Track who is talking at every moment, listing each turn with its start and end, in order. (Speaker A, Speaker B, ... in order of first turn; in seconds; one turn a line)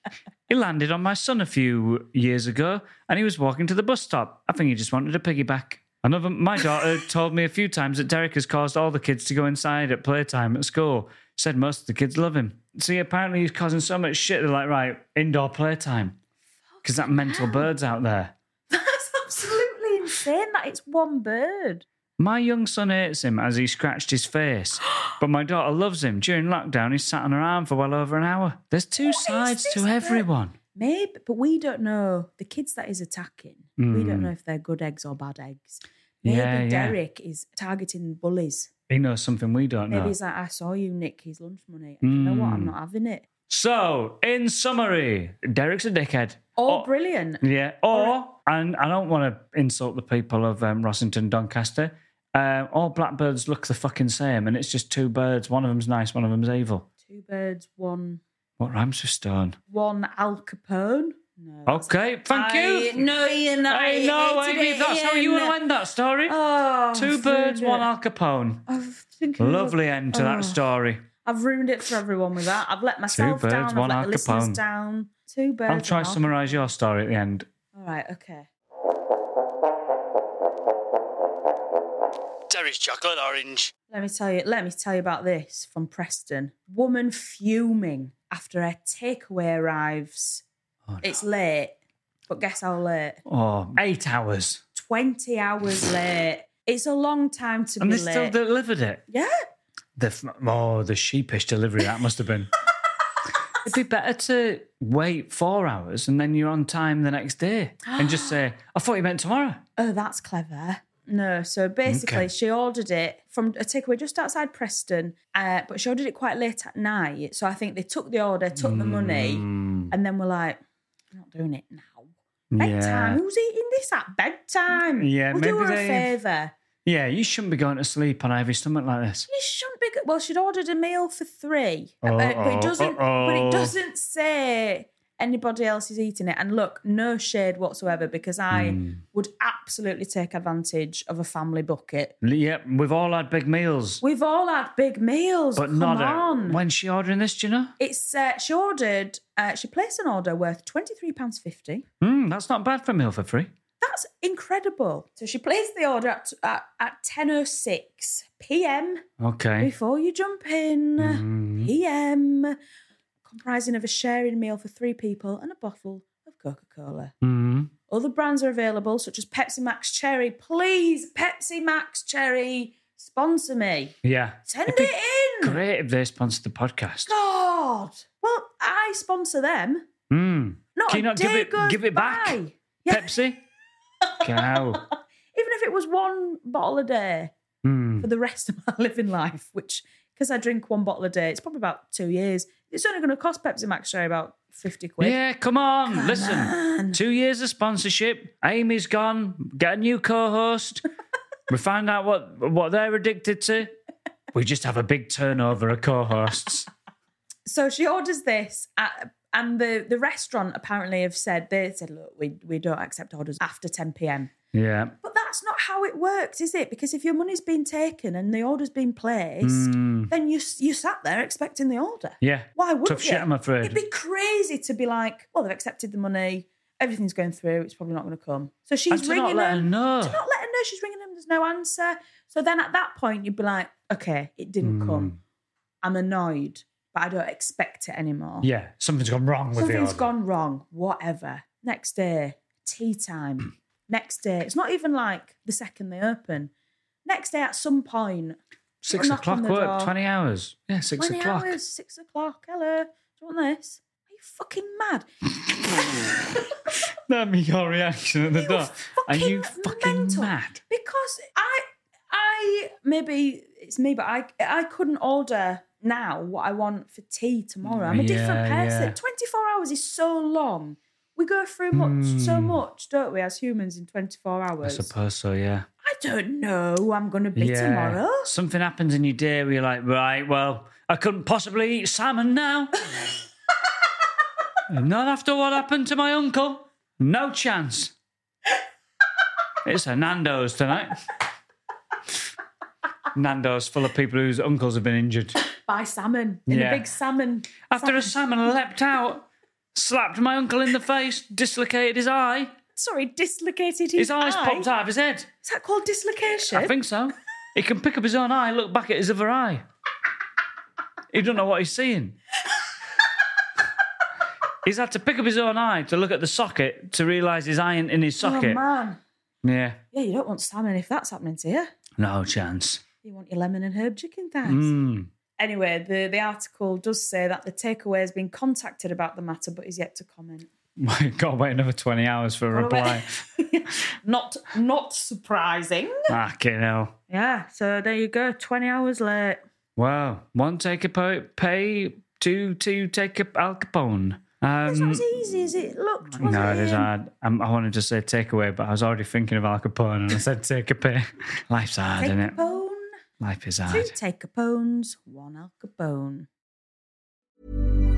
Speaker A: 0.5-16.2
Speaker A: 16.8-18.3
Speaker B: 17.0-17.7
Speaker B: 18.7-21.8
Speaker A: 22.2-30.5
Speaker B: 29.0-38.7
Speaker A: 33.8-34.3
Speaker A: 36.2-37.0
Speaker A: 38.9-40.1
Speaker B: 39.9-43.2
Speaker A: 42.0-42.7
Speaker A: 43.5-46.9
Speaker B: 46.6-47.4
Speaker A: 47.4-56.9
Speaker B: 57.0-58.2
Speaker A: 58.6-59.6
Speaker B: 59.7-65.5
Speaker A: 61.6-63.1
Speaker A: 63.7-66.3
Speaker B: 66.3-67.9
Speaker A: 66.9-68.6
Speaker B: 68.7-70.6
Speaker A: 69.4-71.0
Speaker B: 71.2-76.5
Speaker A: 73.1-74.6
Speaker A: 75.7-77.5
Speaker B: 77.7-78.5
Speaker A: 82.5-83.7
Speaker B: 83.9-90.4
Speaker A: 90.9-91.2
Speaker B: 91.0-93.2
Speaker A: 93.2-94.6
Speaker B: 94.7-98.3
Speaker A: 97.8-99.0
Speaker B: 99.1-99.5
Speaker A: 100.0-102.5
Speaker A: 103.6-109.6
Speaker B: 107.9-108.4
Speaker B: 109.8-120.6
Speaker A: 111.8-112.3
Speaker A: 118.5-119.9
Speaker B: 121.1-126.5
Speaker A: 122.5-123.2
Speaker A: 125.0-126.1
Speaker A: 126.8-129.3
Speaker B: 129.3-142.1
Speaker A: 132.0-133.7
Speaker A: 138.5-139.0
Speaker A: 142.2-144.0
Speaker B: 144.0-146.6
Speaker A: 145.6-147.7
Speaker B: 147.8-151.8
Speaker A: 152.0-153.5
Speaker B: 153.8-159.0
Speaker A: 159.2-159.7
Speaker B: 159.6-162.6
Speaker A: 161.0-161.7
Speaker B: 163.3-167.1
Speaker A: 167.2-167.7
Speaker B: 167.9-173.9
Speaker A: 174.0-177.1
Speaker B: 174.5-175.6
Speaker B: 177.1-179.8
Speaker A: 180.1-183.4
Speaker B: 180.7-183.1
Speaker A: 184.2-184.8
Speaker B: 184.4-187.3
Speaker A: 187.6-188.1
Speaker B: 188.0-195.2
Speaker A: 195.0-200.8
Speaker B: 195.9-197.0
Speaker A: 201.5-203.7
Speaker A: 204.3-206.7
Speaker B: 207.4-214.3
Speaker A: 214.5-214.9
Speaker B: 215.0-235.1
Speaker A: 219.4-220.1
Speaker A: 222.2-223.8
Speaker A: 228.9-230.2
Speaker A: 234.6-235.2
Speaker B: 235.8-238.5
Speaker A: 238.4-240.1
Speaker B: 239.6-246.5
Speaker B: 247.0-248.4
Speaker A: 248.8-251.6
Speaker B: 248.9-249.9
Speaker B: 251.0-255.1
Speaker A: 256.7-260.6
Speaker B: 258.3-274.9
Speaker A: 267.9-268.9
Speaker A: 271.7-272.6
Speaker A: 274.6-275.6
Speaker B: 275.8-278.3
Speaker A: 277.4-282.8
Speaker A: 284.7-287.9
Speaker A: 289.6-291.0
Speaker A: 293.1-295.4
Speaker B: 295.7-298.1
Speaker A: 296.5-296.8
Speaker A: 297.7-302.5
Speaker B: 302.8-304.7
Speaker A: 303.9-305.3
Speaker B: 305.4-306.7
Speaker A: 306.5-309.6
Speaker A: 311.1-312.2
Speaker A: 314.6-318.6
Speaker B: 318.2-319.0
Speaker A: 319.4-319.8
Speaker B: 319.9-321.7
Speaker A: 322.0-322.8
Speaker B: 323.0-324.7
Speaker A: 324.4-325.1
Speaker B: 325.4-330.5
Speaker A: 330.8-333.1
Speaker B: 332.5-336.1
Speaker A: 336.1-336.9
Speaker B: 337.1-339.4
Speaker A: 339.8-345.0
Speaker B: 344.7-346.9
Speaker A: 346.2-352.4
Speaker B: 352.0-352.9
Speaker A: 353.2-353.9
Speaker B: 353.7-356.3